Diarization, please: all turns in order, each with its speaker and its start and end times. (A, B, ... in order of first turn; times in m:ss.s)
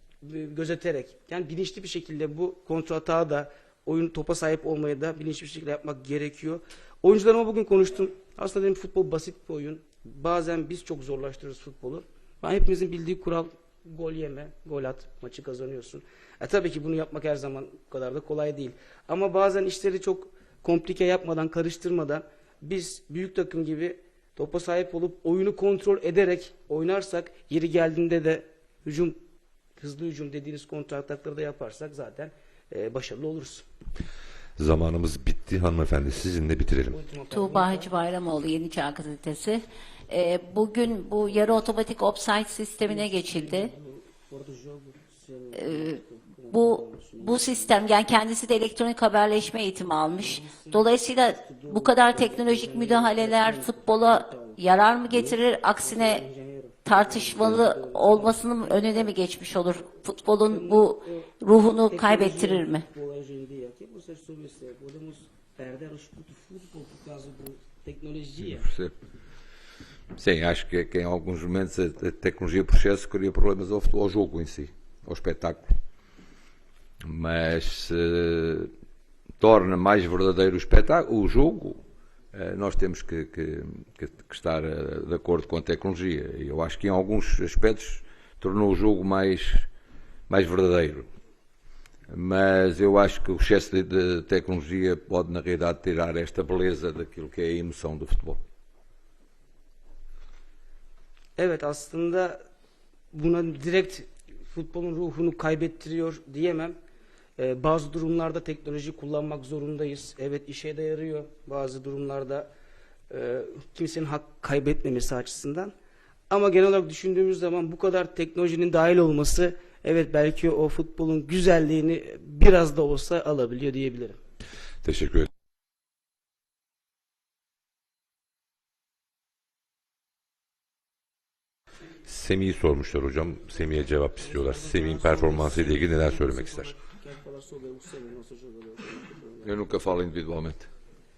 0:00.2-0:29.2 A
0:29.8-0:33.6 A
0:34.6-0:37.0 B
0:36.9-0:37.9 A
0:37.3-0:43.7 C
0:41.2-0:41.7 A
0:42.8-0:47.8 A
0:45.5-0:56.2 C
0:50.2-0:59.2 A
0:56.8-1:02.8 C
1:00.4-1:08.7 A
1:08.5-1:08.9 D
1:10.2-1:15.8 D
1:17.0-1:18.7 D
1:19.4-1:21.8 D
1:22.3-1:29.7 D
1:30.3-1:31.1 D
1:32.1-1:38.4 D
1:41.4-1:42.4 A
1:43.1-1:46.8 A
1:47.4-1:52.5 A
1:53.1-1:55.7 A
1:56.3-2:04.2 A
2:04.8-2:05.3 B
2:12.0-2:16.7 B
2:14.2-2:19.7 A
2:19.4-2:20.7 D